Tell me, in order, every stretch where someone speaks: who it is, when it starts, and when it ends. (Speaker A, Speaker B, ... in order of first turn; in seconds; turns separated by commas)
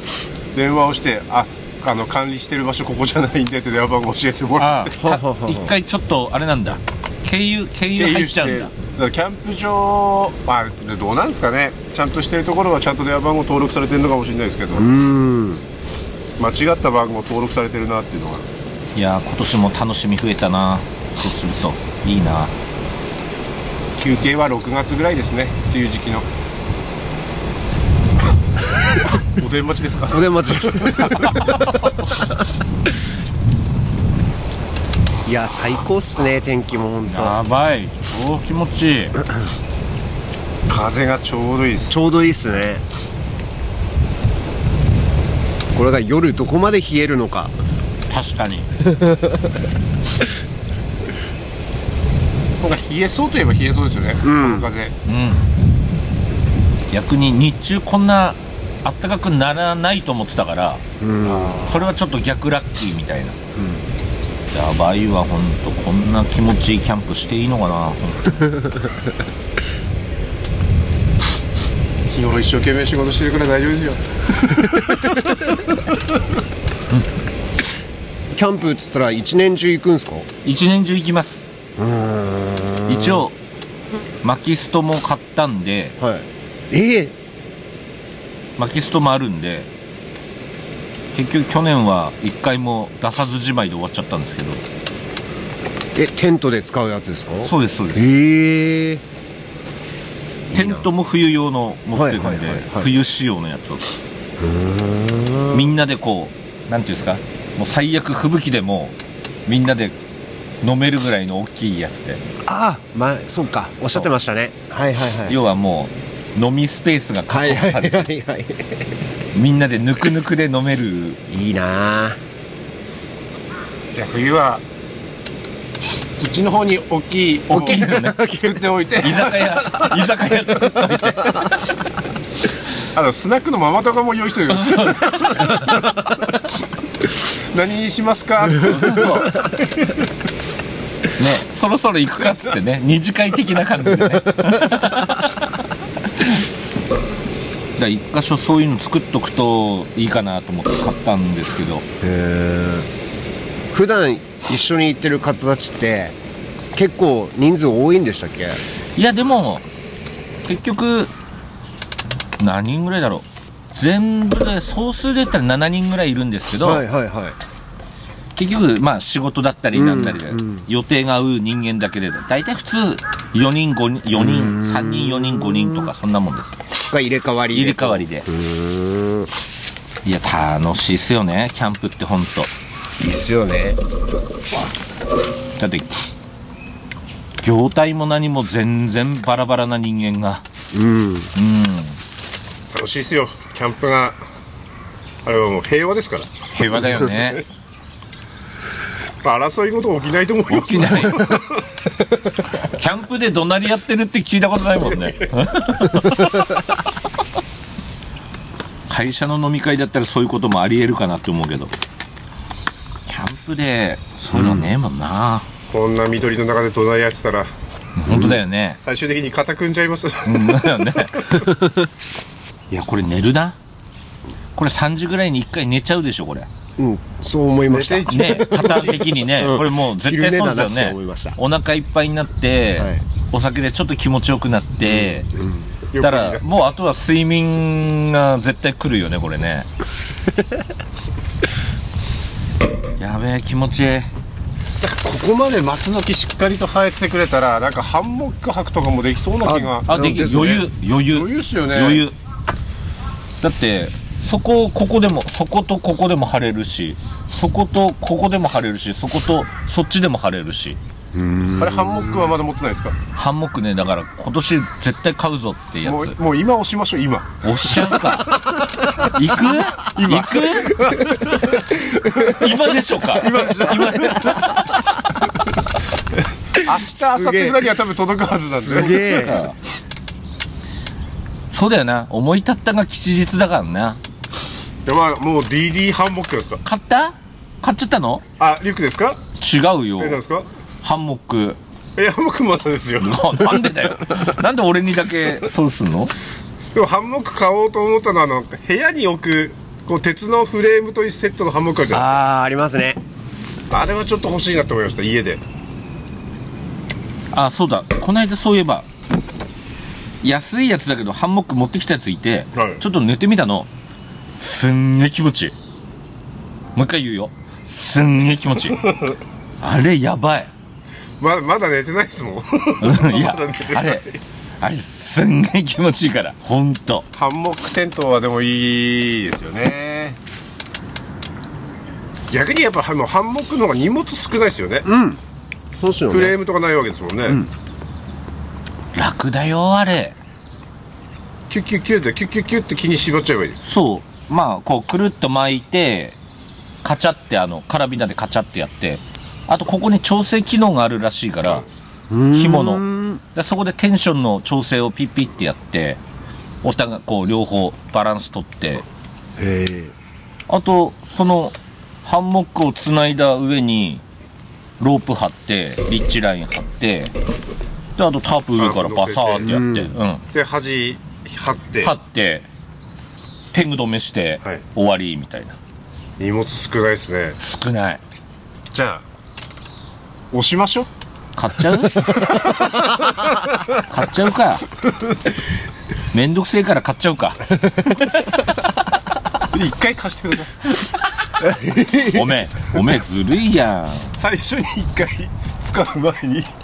Speaker A: 0.5-5.0, Speaker B: 4.6-8.7, Speaker C: 5.0-5.7, Speaker A: 7.9-14.9, Speaker C: 14.7-15.6, Speaker A: 16.4-18.4, Speaker B: 18.9-22.5, Speaker A: 24.0-26.2, Speaker A: 29.4-30.2, Speaker C: 30.1-31.7, Speaker C: 35.2-37.4, Speaker B: 37.0-39.2, Speaker A: 40.7-41.9, Speaker C: 41.9-42.8, Speaker C: 45.7-47.5, Speaker B: 48.1-48.7, Speaker C: 48.9-49.3, Speaker A: 52.6-54.9, Speaker C: 54.2-54.7, Speaker B: 55.0-55.5, Speaker B: 56.9-60.8, Speaker C: 61.0-61.9, Speaker B: 61.5-63.4, Speaker C: 63.6-63.8, Speaker B: 64.5-68.4, Speaker A: 72.1-74.0, Speaker C: 78.3-80.2, Speaker B: 80.4-81.5, Speaker C: 81.8-83.3, Speaker B: 82.8-83.3, Speaker B: 84.2-86.0, Speaker C: 86.0-87.1, Speaker B: 88.6-89.7, Speaker B: 91.1-94.6, Speaker C: 95.9-99.0, Speaker B: 97.4-98.1, Speaker C: 100.5-100.9, Speaker B: 100.5-103.8, Speaker C: 101.9-102.9, Speaker C: 104.4-105.7, Speaker B: 105.5-108.9, Speaker B: 109.5-109.9, Speaker B: 110.6-112.2, Speaker C: 112.4-115.4, Speaker B: 115.3-118.1, Speaker C: 117.3-118.9, Speaker B: 119.3-121.2, Speaker C: 121.3-122.2, Speaker A: 123.9-124.6, Speaker A: 126.2-130.0, Speaker B: 127.5-128.4, Speaker C: 127.7-128.6, Speaker B: 129.0-131.6, Speaker A: 132.9-136.1, Speaker B: 134.5-135.7, Speaker A: 137.5-139.5, Speaker B: 138.6-139.3, Speaker B: 141.2-146.4, Speaker B: 147.8-151.8, Speaker C: 152.0-152.9, Speaker C: 153.7-156.1, Speaker C: 156.7-158.6, Speaker B: 158.9-159.6, Speaker B: 160.4-161.1, Speaker B: 162.4-166.8, Speaker C: 166.6-167.3, Speaker B: 168.3-176.6, Speaker C: 169.7-170.7, Speaker C: 174.1-175.9, Speaker C: 176.8-179.3, Speaker B: 177.5-178.2, Speaker B: 180.0-182.5, Speaker C: 183.0-183.8, Speaker B: 185.6-185.9, Speaker B: 187.4-190.4, Speaker C: 190.7-191.3, Speaker B: 191.3-192.0, Speaker A: 192.7-194.2, Speaker A: 195.2-196.3, Speaker B: 196.5-197.4, Speaker A: 199.2-201.7, Speaker B: 200.5-201.4, Speaker B: 202.6-206.6, Speaker B: 208.9-211.7, Speaker B: 213.1-215.4, Speaker C: 214.3-214.7, Speaker A: 215.7-217.5, Speaker B: 218.0-218.8, Speaker C: 218.1-218.4, Speaker A: 218.1-221.4, Speaker B: 220.2-221.5, Speaker B: 222.7-223.6, Speaker B: 224.6-226.5, Speaker C: 226.8-231.4, Speaker A: 227.7-229.0, Speaker B: 228.1-235.3, Speaker C: 232.8-233.0, Speaker C: 234.9-235.6, Speaker A: 235.9-236.5, Speaker B: 236.0-239.7, Speaker B: 243.0-244.1, Speaker A: 244.8-252.1, Speaker C: 249.4-250.5, Speaker B: 249.8-252.2, Speaker B: 253.4-260.8, Speaker C: 261.1-262.3, Speaker A: 261.6-262.9, Speaker B: 263.1-266.1, Speaker A: 265.8-268.2, Speaker B: 267.4-268.4, Speaker B: 269.0-270.7, Speaker A: 269.9-271.9, Speaker B: 272.2-275.0, Speaker A: 273.1-274.3, Speaker C: 273.3-273.7, Speaker A: 276.6-279.2, Speaker C: 276.7-277.6, Speaker C: 278.4-279.4, Speaker B: 279.0-279.5, Speaker B: 281.5-284.0, Speaker A: 284.9-286.6, Speaker B: 286.6-288.2, Speaker A: 288.4-289.2, Speaker B: 289.4-290.2, Speaker A: 290.0-290.5, Speaker B: 290.8-291.6, Speaker A: 292.0-293.8, Speaker B: 293.0-296.1, Speaker A: 296.7-302.1, Speaker C: 301.9-303.0, Speaker A: 303.7-305.4, Speaker B: 307.3-308.9, Speaker B: 310.2-313.7, Speaker A: 312.5-312.8, Speaker B: 314.4-315.5, Speaker B: 316.8-318.9, Speaker B: 319.6-320.5, Speaker A: 321.2-324.2, Speaker B: 322.8-324.1, Speaker B: 324.6-327.1, Speaker A: 327.1-330.2, Speaker A: 332.3-334.8, Speaker C: 334.8-335.2, Speaker C: 335.8-336.4, Speaker A: 336.1-337.4, Speaker B: 338.9-340.1, Speaker A: 341.5-343.6, Speaker B: 343.6-346.2, Speaker B: 346.8-351.6, Speaker C: 352.1-353.2, Speaker B: 352.3-356.0, Speaker B: 356.6-358.8, Speaker C: 359.4-359.9, Speaker B: 360.5-364.0, Speaker B: 364.8-367.1, Speaker B: 367.9-370.2, Speaker A: 368.6-369.6, Speaker C: 369.4-369.9, Speaker A: 370.3-371.9, Speaker B: 371.8-372.5, Speaker B: 373.5-375.5, Speaker A: 376.2-377.4, Speaker B: 377.4-378.0, Speaker A: 378.7-379.0, Speaker A: 380.3-380.9, Speaker B: 381.4-382.2, Speaker B: 383.8-384.6, Speaker B: 386.1-388.0, Speaker A: 389.5-390.7, Speaker C: 391.4-392.2, Speaker B: 392.0-394.1, Speaker A: 394.1-396.5